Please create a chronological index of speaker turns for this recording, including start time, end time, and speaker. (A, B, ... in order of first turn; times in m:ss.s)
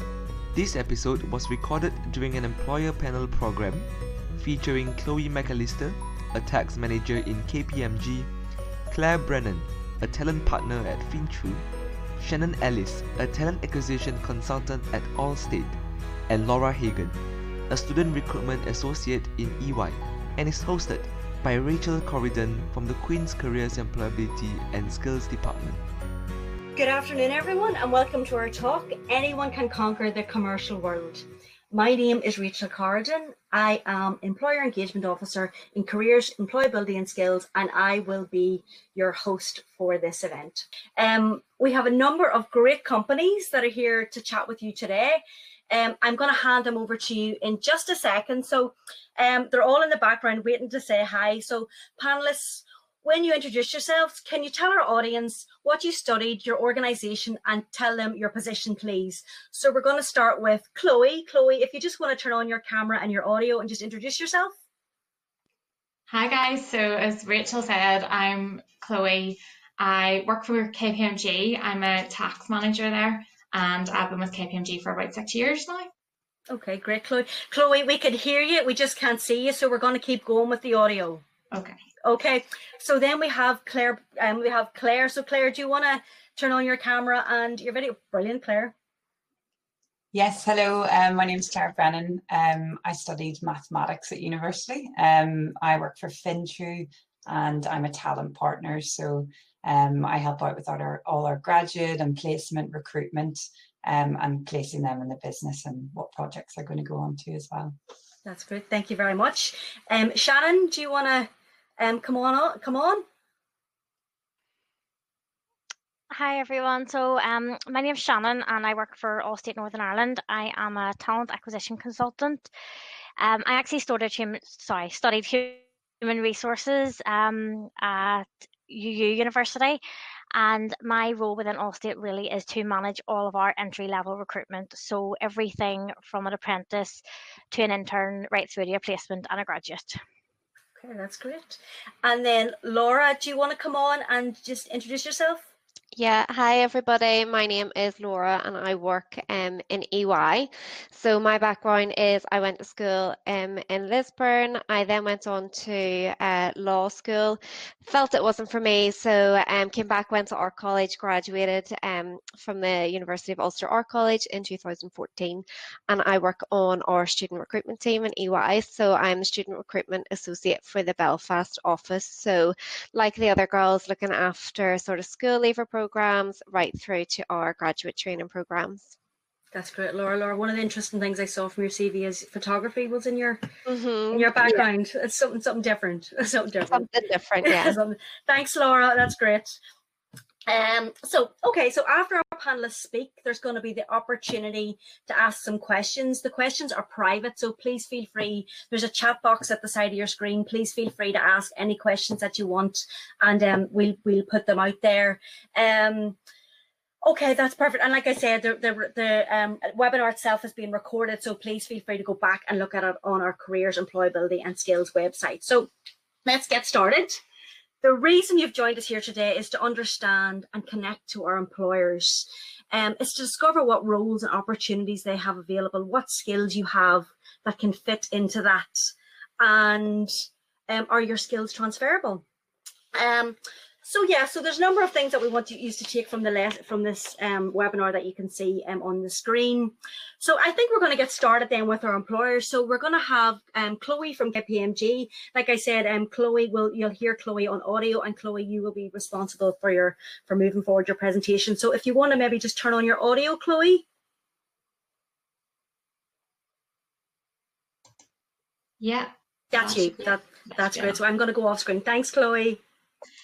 0:00.5-0:25.8 A
0:26.7-1:04.6 B
1:06.1-1:15.9 C
1:16.5-1:21.2 B
1:21.5-1:21.8 C
1:22.0-1:28.7 B
1:30.1-1:47.7 D
1:48.2-1:53.0 B
1:56.1-2:02.5 E
2:03.2-2:09.8 E
2:10.3-2:20.0 E
2:20.8-2:25.5 B
2:25.9-2:58.9 F
2:59.5-3:03.5 B
3:03.6-3:04.6 F
3:04.1-3:06.9 B
3:06.7-3:07.8 F
3:07.4-3:09.6 B
3:10.5-3:26.2 B
3:27.0-3:35.7 B
3:36.2-3:37.2 B
3:37.8-3:50.1 B
3:50.7-3:52.2 B
3:52.9-4:13.8 B
4:18.8-4:21.0 C
4:19.5-4:22.6 B